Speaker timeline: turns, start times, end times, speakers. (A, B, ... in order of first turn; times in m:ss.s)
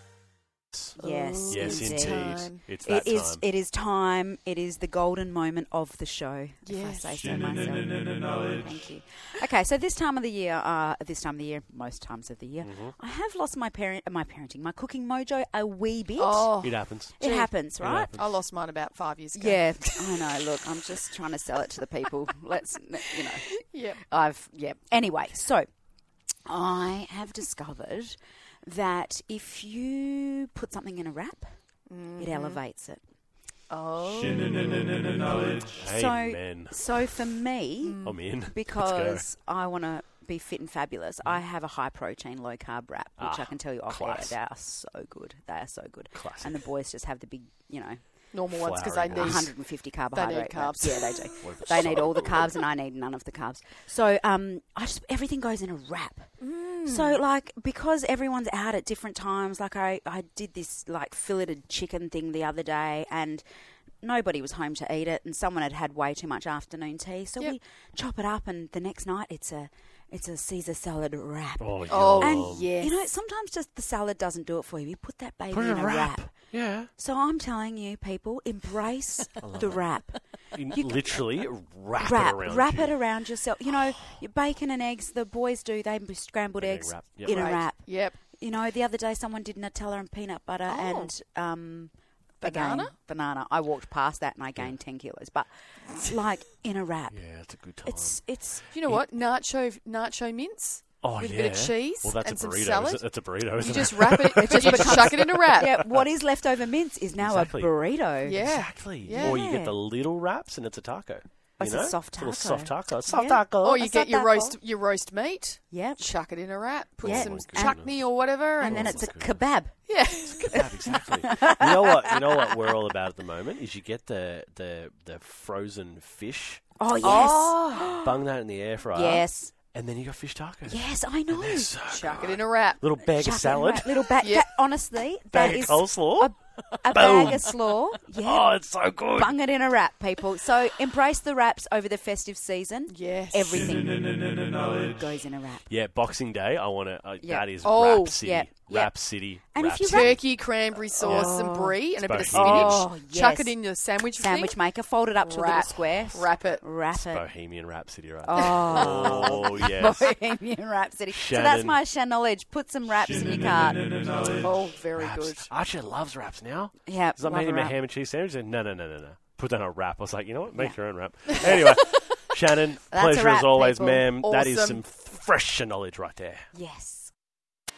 0:01.0-0:02.6 A
0:01.0-0:16.5 B
0:01.5-0:03.4 C
0:06.6-0:07.5 A
0:12.6-0:13.0 C
0:16.2-0:20.2 A
0:16.6-0:17.2 C
0:17.2-0:18.1 B
0:17.8-0:18.4 C
0:19.3-0:25.7 B
0:23.7-0:24.0 A
0:26.5-0:31.6 B
0:31.9-0:32.6 A
0:32.2-0:33.0 B
0:33.7-0:35.7 A
0:35.8-0:37.2 C
0:35.8-0:48.0 B
0:37.8-0:38.2 A
0:38.0-0:39.3 C
0:43.2-0:44.4 C
0:46.2-0:46.6 C
0:48.3-0:51.5 A
0:48.5-0:49.5 C
0:49.1-1:03.4 B
0:51.4-0:52.6 C
0:56.4-0:57.2 A
1:04.0-1:16.4 B
1:11.6-1:12.7 C
1:11.9-1:12.9 A
1:15.5-1:16.9 C
1:17.0-1:21.2 B
1:19.4-1:19.8 C
1:20.5-1:23.0 C
1:22.0-1:37.2 B
1:26.6-1:27.6 C
1:27.3-1:28.2 A
1:30.7-1:31.1 A
1:32.4-1:32.9 A
1:37.1-1:39.0 C
1:37.8-1:38.6 B
1:38.7-1:45.8 A
1:41.0-1:46.1 C
1:44.4-1:48.5 B
1:47.2-1:53.8 C
1:48.2-1:49.4 A
1:49.0-1:49.8 B
1:51.6-1:54.6 B
1:53.6-1:59.1 A
1:55.7-1:56.0 B
1:57.0-1:59.5 C
1:57.0-1:57.8 B
1:58.6-1:59.8 B
1:59.9-2:01.0 A
2:00.1-2:07.2 C
2:00.5-2:01.8 B
2:06.8-2:08.2 B
2:07.0-2:08.0 A
2:08.0-2:14.1 C
2:08.9-2:09.5 B
2:10.7-2:11.8 B
2:11.9-2:12.8 A
2:13.0-2:25.7 B
2:14.2-2:14.5 A
2:15.3-2:16.4 C
2:16.9-2:17.6 C
2:18.1-2:19.4 C
2:22.9-2:23.9 A
2:25.7-2:30.2 C
2:27.2-2:27.5 B
2:27.6-2:28.2 A
2:28.2-2:30.2 B
2:29.8-2:34.6 A
2:31.0-2:31.8 B
2:31.0-2:31.4 C
2:32.0-2:32.9 C
2:32.3-2:37.3 B
2:35.2-2:36.6 A
2:37.0-2:40.1 C
2:38.3-2:44.3 B
2:38.3-2:39.7 A
2:41.1-2:41.8 C
2:44.2-2:45.5 A
2:45.0-2:56.5 C
2:46.9-2:47.8 B
2:52.9-2:54.1 B
2:54.2-2:54.8 A
2:56.5-2:57.1 B